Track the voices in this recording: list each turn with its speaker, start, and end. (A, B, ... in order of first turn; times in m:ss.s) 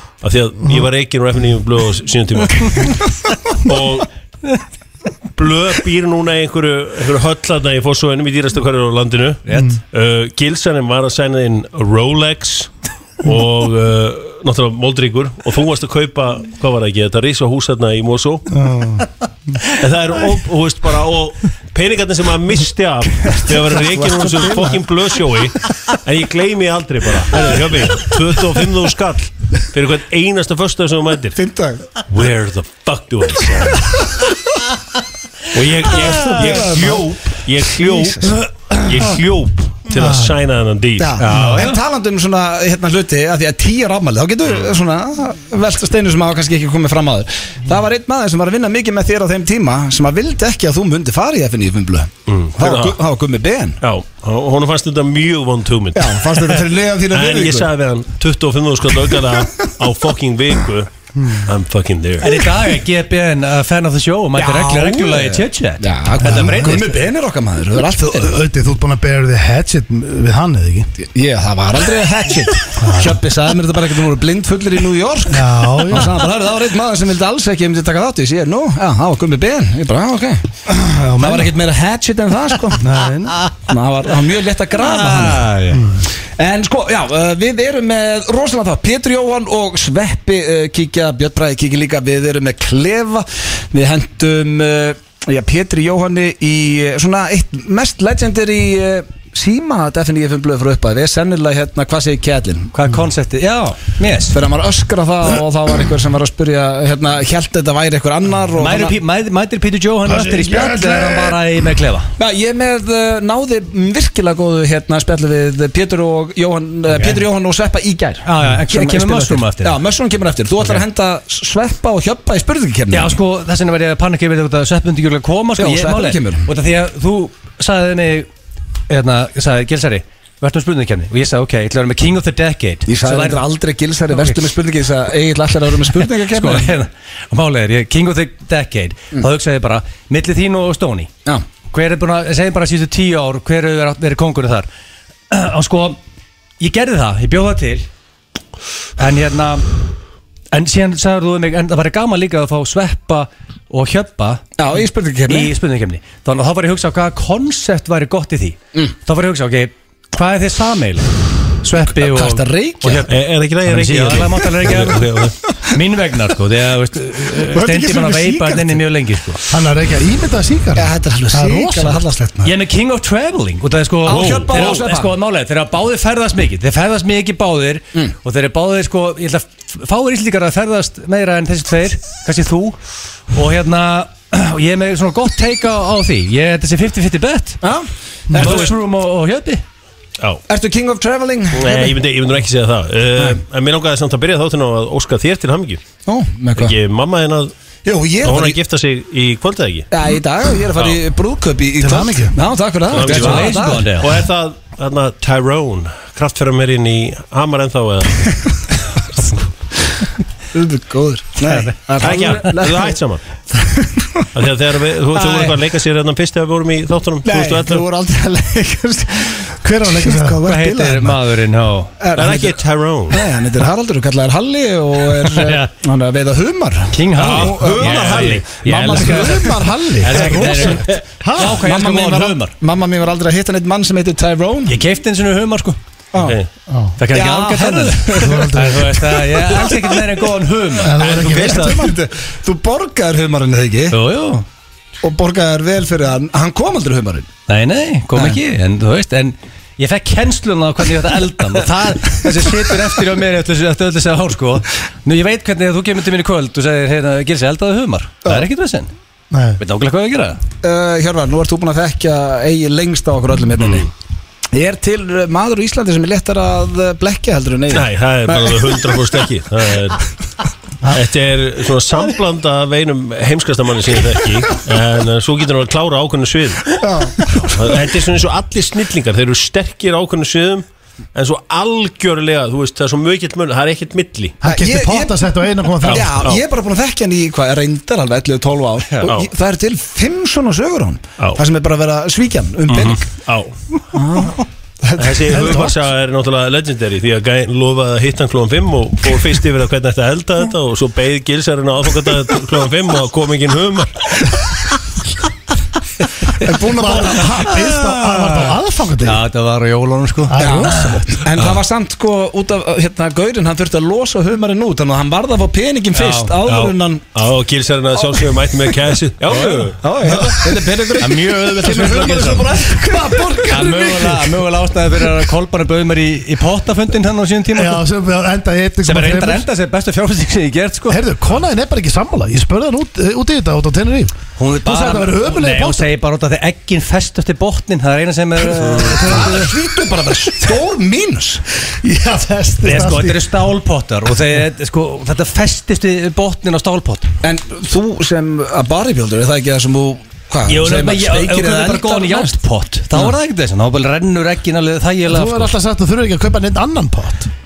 0:00.2-0:03.1 A
0:03.6-0:04.1 A
0:05.3-0:18.5 A
0:09.4-0:09.8 B
0:18.5-0:19.1 C
0:19.8-0:31.4 A
0:23.7-0:24.8 D
0:31.4-0:31.8 D
0:32.0-0:34.2 A
0:35.5-0:41.2 A
0:35.9-0:37.1 D
0:37.7-0:38.4 D
0:38.6-0:39.0 C
0:39.9-0:40.4 C
0:41.0-0:53.8 D
0:41.2-0:41.8 B
0:41.3-0:41.7 C
0:52.3-0:53.0 A
0:53.8-1:02.4 A
0:55.9-0:57.7 D
1:01.2-1:01.5 C
1:02.2-1:07.1 B
1:04.3-1:08.4 D
1:06.2-1:06.5 C
1:07.9-1:10.9 C
1:11.0-1:20.6 D
1:12.8-1:13.2 C
1:15.3-1:16.2 C
1:20.7-1:21.4 C
1:21.2-1:22.8 D
1:22.8-1:23.4 C
1:23.7-1:25.5 D
1:24.8-1:25.9 B
1:25.7-1:26.0 C
1:26.4-1:42.7 D
1:42.7-1:44.4 B
1:44.3-1:49.0 D
1:48.6-1:52.1 B
1:50.0-1:51.4 C
1:52.2-2:03.2 D
1:56.9-1:57.2 B
1:58.2-1:59.8 B
2:02.9-2:08.3 B
2:05.6-2:06.5 D
2:08.9-2:13.4 B
2:12.8-2:16.7 D
2:14.1-2:14.4 B
2:16.0-2:21.1 B
2:21.6-2:24.7 B
2:25.3-2:26.0 B
2:26.6-2:27.8 B
2:29.0-2:29.6 B
2:30.5-2:34.4 B
2:34.6-2:35.5 D
2:35.2-2:41.1 B
2:41.6-2:49.4 B
2:41.9-2:43.0 D
2:43.1-2:45.3 A
2:47.5-2:48.8 D
2:49.5-2:52.0 C
2:50.8-2:52.5 D
2:52.4-3:02.8 B
2:54.0-2:55.1 D
2:54.1-2:54.8 A
3:03.3-3:07.6 B
3:07.6-3:08.7 D
3:08.3-3:08.6 C
3:08.3-3:09.6 B
3:10.5-3:11.9 D
3:11.5-3:15.8 A
3:16.0-3:16.8 D
3:16.6-3:17.5 A
3:17.8-3:18.6 D
3:18.2-3:19.9 A
3:19.9-3:23.9 D
3:21.8-3:22.4 C
3:22.9-3:28.6 A
3:23.0-3:24.1 B
3:30.5-3:32.9 D
3:31.4-3:32.3 B
3:32.0-3:33.2 A
3:33.5-3:34.2 D
3:34.3-3:37.8 A
3:35.2-3:35.5 D
3:37.2-3:41.2 D
3:39.6-3:40.4 C
3:40.4-3:41.9 B
3:42.0-3:54.8 D
3:42.2-3:43.2 A
3:45.2-3:45.7 B
3:46.9-3:52.5 B
3:47.3-3:48.4 A
3:50.0-3:51.6 C
3:54.7-3:55.8 B
3:56.7-3:56.9 C
3:57.0-4:01.6 B
3:57.1-4:00.1 D
3:58.2-3:59.2 C
4:00.8-4:01.8 C
4:01.0-4:01.6 A
4:01.0-4:04.0 D
4:03.9-4:04.4 B
4:05.0-4:07.3 D
4:07.5-4:18.9 B
4:19.3-4:19.6 C
4:19.6-4:20.4 B
4:20.6-4:23.9 D
4:24.5-4:28.8 D
4:27.7-4:30.0 A
4:30.9-4:36.8 A
4:36.8-4:37.5 D
4:37.5-4:44.4 A
4:44.4-4:46.3 C
4:44.4-4:45.2 D
4:45.8-4:53.0 D
4:45.8-4:46.4 A
4:52.7-4:53.5 A
4:53.9-4:55.6 D
4:55.0-5:04.4 A
5:06.4-5:07.5 D
5:06.7-5:09.2 C
5:07.7-5:11.0 B
5:10.3-5:11.0 C
5:10.4-5:17.0 D
5:15.9-5:16.4 B
5:16.4-5:19.8 A
5:19.3-5:19.7 B
5:19.8-5:23.7 D
5:20.1-5:20.4 C
5:21.0-5:22.5 B
5:21.9-5:24.4 C
5:23.5-5:27.8 B
5:27.5-5:29.5 C
5:28.8-5:31.0 B
5:30.9-5:35.9 C
5:34.4-5:39.5 B
5:38.4-5:41.4 D
5:41.8-5:43.2 C
5:42.6-5:47.1 B
5:47.2-5:52.4 D
5:50.4-5:55.5 B
5:55.1-5:57.3 C